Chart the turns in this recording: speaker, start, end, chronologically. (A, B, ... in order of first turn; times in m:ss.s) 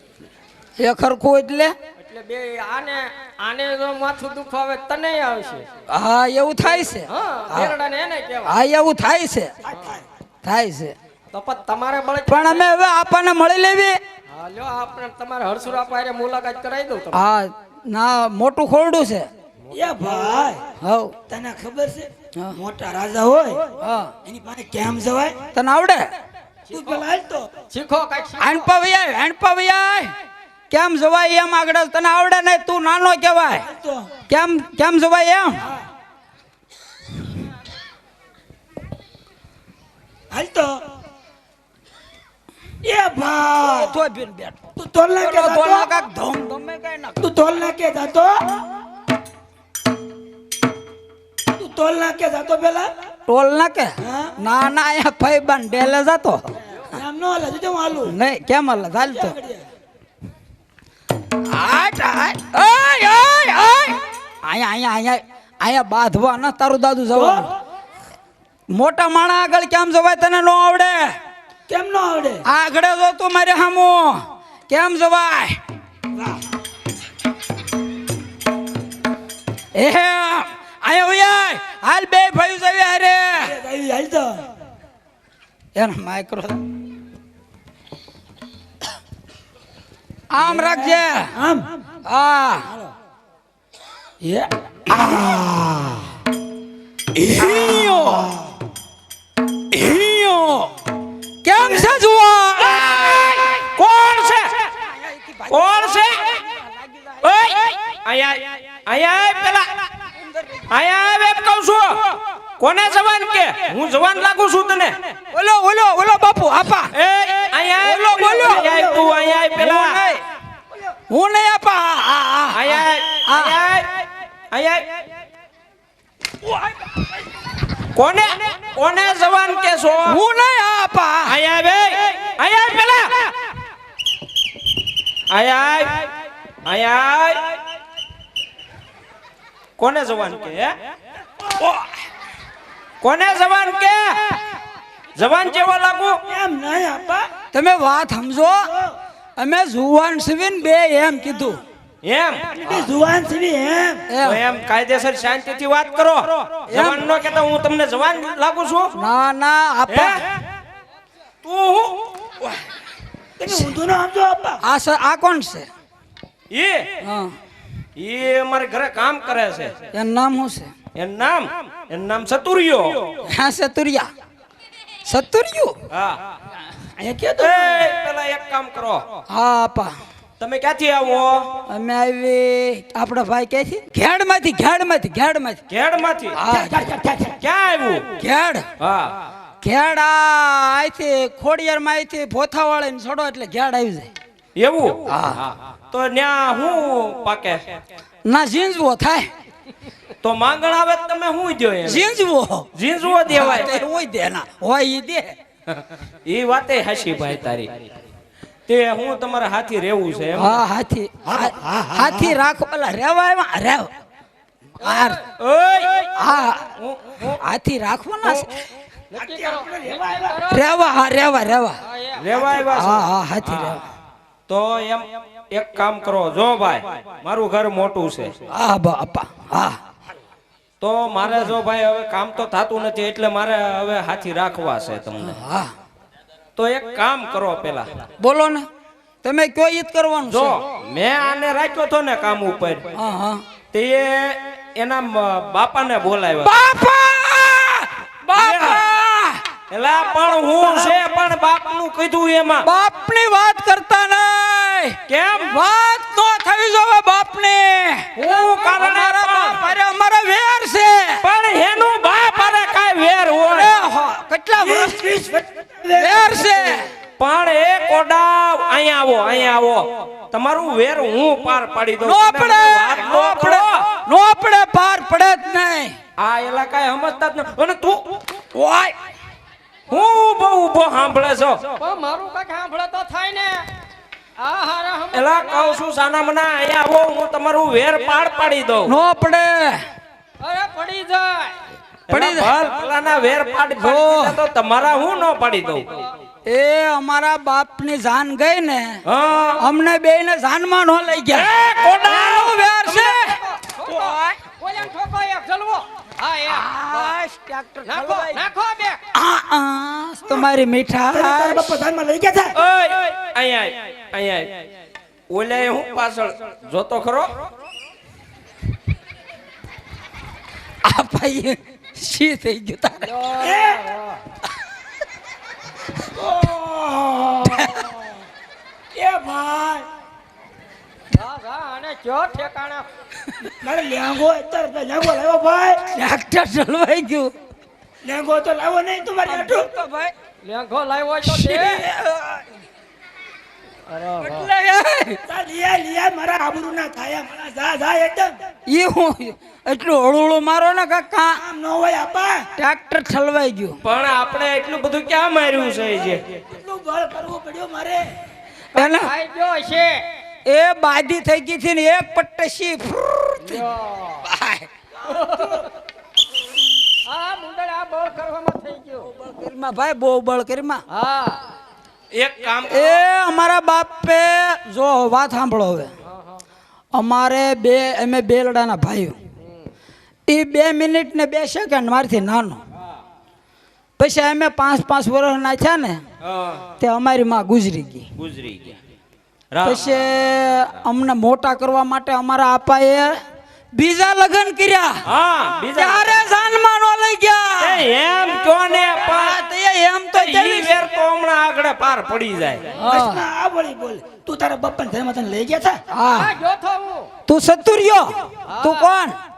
0:00.8-0:01.8 A
0:02.0-0:05.7 B
0:05.9-0:07.8 A
0:06.8-0:08.6 B
0:08.5-0:09.5 A
0:09.6-0:10.0 C
0:10.4-0:11.0 A
0:11.3-0:12.6 B
0:12.3-0:14.0 A
0:14.3-0:17.3 B
0:17.1-0:19.3 A
0:19.7-0:20.6 C
0:20.8-0:21.2 A
0:21.3-0:23.7 C
0:23.8-0:24.1 A
0:24.3-0:25.4 C
0:25.5-0:26.1 A
0:26.7-0:27.5 C
0:27.7-0:28.7 B
0:28.4-0:30.1 A
0:30.7-0:33.7 A
0:33.6-0:34.1 C
0:34.3-0:35.6 A
0:40.3-0:40.8 C
0:42.8-0:44.0 C
0:43.9-0:44.6 A
0:44.8-0:45.9 C
0:45.2-0:47.2 A
0:47.2-0:48.4 C
0:51.6-0:52.9 C
0:53.3-0:56.6 A
0:54.0-0:54.3 C
0:56.9-0:58.1 C
0:58.1-0:59.4 A
0:59.0-0:59.7 C
1:01.5-1:07.5 A
1:07.1-1:07.5 C
1:08.7-1:11.2 A
1:11.7-1:12.4 C
1:12.4-1:15.6 A
1:19.8-1:23.6 A
1:23.4-1:24.4 C
1:25.8-1:26.6 A
1:30.3-1:31.3 A
1:30.4-1:31.7 C
1:32.1-1:32.7 A
1:34.2-1:36.1 C
1:37.2-1:38.3 A
1:37.3-1:38.5 C
1:39.7-1:40.7 A
1:41.4-1:43.6 A
1:43.2-1:44.6 D
1:44.8-1:45.4 C
1:45.5-1:46.4 D
1:47.2-1:49.7 D
1:50.7-1:55.2 D
1:55.3-1:56.9 A
1:56.9-2:00.0 D
1:57.8-1:58.6 A
1:58.2-1:59.2 C
1:59.6-2:00.2 A
2:01.1-2:03.6 A
2:02.5-2:05.0 D
2:07.9-2:10.2 D
2:10.0-2:11.4 A
2:11.3-2:13.4 D
2:15.3-2:16.1 D
2:16.6-2:17.6 D
2:19.8-2:20.8 D
2:23.0-2:24.4 D
2:25.2-2:26.2 D
2:26.3-2:27.3 C
2:27.5-2:28.7 A
2:28.7-2:29.0 C
2:29.4-2:31.6 A
2:32.0-2:32.5 D
2:32.6-2:34.0 C
2:34.1-2:34.4 A
2:34.2-2:39.0 D
2:36.7-2:37.0 A
2:39.0-2:40.2 A
2:39.9-2:40.3 D
2:41.4-2:42.1 D
2:43.4-2:44.6 C
2:44.6-2:45.7 A
2:46.5-2:47.0 D
2:47.0-2:47.4 A
2:48.0-2:49.8 D
2:49.9-2:50.7 A
2:51.0-2:53.3 D
2:53.3-2:54.1 A
2:55.1-2:55.8 A
2:55.9-2:56.2 D
2:57.0-2:57.9 C
2:57.4-2:59.0 D
2:59.3-3:00.0 A
3:00.4-3:01.6 D
3:01.7-3:05.6 A
3:05.7-3:06.4 D
3:06.4-3:06.8 A
3:06.4-3:07.4 C
3:07.4-3:08.2 D
3:08.2-3:08.7 A
3:08.8-3:09.2 D
3:09.6-3:14.1 A
3:14.6-3:17.8 D
3:15.1-3:15.4 A
3:18.2-3:19.3 A
3:20.2-3:22.1 D
3:21.9-3:22.7 A
3:22.7-3:23.8 D
3:23.3-3:25.4 A
3:25.7-3:27.8 D
3:28.7-3:30.6 D
3:30.4-3:33.9 A
3:31.2-3:32.4 C
3:34.8-3:35.2 A
3:34.8-3:35.2 B
3:35.4-3:37.4 D
3:36.2-3:36.6 A
3:37.4-3:38.5 A
3:39.1-3:40.7 B
3:39.2-3:40.4 C
3:40.5-3:41.8 A
3:41.8-3:42.5 B
3:42.2-3:43.8 D
3:42.7-3:43.8 A
3:44.5-3:48.4 D
3:48.5-3:49.8 A
3:50.8-3:55.4 D
3:55.2-3:55.7 A
3:56.6-3:57.9 D
3:58.2-3:58.7 A
3:59.2-4:00.6 A
4:00.3-4:02.9 D
4:02.9-4:03.4 A
4:03.7-4:06.5 D
4:06.4-4:09.4 A
4:08.3-4:08.8 D
4:09.7-4:12.7 D
4:12.6-4:21.2 A
4:15.1-4:15.6 D
4:18.2-4:19.6 D
4:21.2-4:23.7 D
4:23.5-4:25.1 A
4:24.6-4:26.8 C
4:26.0-4:26.9 A
4:27.2-4:33.9 D
4:32.0-4:36.0 A
4:36.2-4:38.2 D
4:38.5-4:39.0 A
4:39.9-4:41.8 D
4:41.8-4:43.6 B
4:44.4-4:45.8 B
4:45.1-4:49.0 D
4:48.9-4:49.8 A
4:50.4-4:51.6 B
4:52.1-4:56.0 D
4:52.1-4:52.5 A
4:53.8-4:54.4 A
4:56.5-4:59.0 A
4:59.0-4:59.6 D
4:59.6-5:04.4 A
5:01.3-5:02.7 D
5:02.8-5:07.2 B
5:06.5-5:08.4 A
5:07.9-5:09.0 B
5:09.1-5:11.8 A
5:11.1-5:12.5 C
5:12.6-5:14.7 D
5:15.3-5:17.4 D
5:20.8-5:23.1 A
5:23.0-5:24.2 B
5:23.4-5:23.9 C
5:26.1-5:28.1 C
5:28.9-5:29.9 C
5:31.1-5:32.9 B
5:33.6-5:35.9 C
5:35.9-5:37.3 A
5:38.0-5:39.7 C
5:39.3-5:40.1 A
5:40.4-5:41.9 B
5:41.2-5:42.4 A
5:43.9-5:44.5 B
5:44.2-5:45.2 A
5:45.3-5:48.4 C
5:48.7-5:51.4 A
5:51.4-5:52.5 C
5:52.6-5:53.8 A
5:53.8-5:56.4 D
5:56.4-5:58.1 C
5:58.8-5:59.1 A
5:58.8-6:00.0 B
6:00.5-6:03.7 A
6:03.4-6:04.3 B
6:04.2-6:04.7 A
6:05.0-6:05.7 B
6:07.0-6:09.1 B
6:09.2-6:10.8 A
6:10.9-6:11.4 B
6:12.1-6:13.0 D
6:12.7-6:15.9 A
6:16.0-6:16.4 B
6:16.9-6:19.2 A
6:19.4-6:19.7 B
6:20.3-6:22.6 A
6:24.0-6:26.0 A
6:26.2-6:26.6 D
6:26.8-6:28.1 A
6:28.2-6:28.8 D
6:29.5-6:30.4 D
6:29.6-6:33.2 A
6:33.8-6:35.0 A
6:35.1-6:36.3 D
6:35.8-6:37.8 A
6:37.6-6:39.4 D
6:39.0-6:40.8 A
6:40.1-6:42.8 D
6:42.8-6:43.2 A
6:42.8-6:45.8 C
6:45.9-6:46.4 A
6:46.0-6:47.1 B
6:47.3-6:49.2 A
6:48.5-6:48.9 B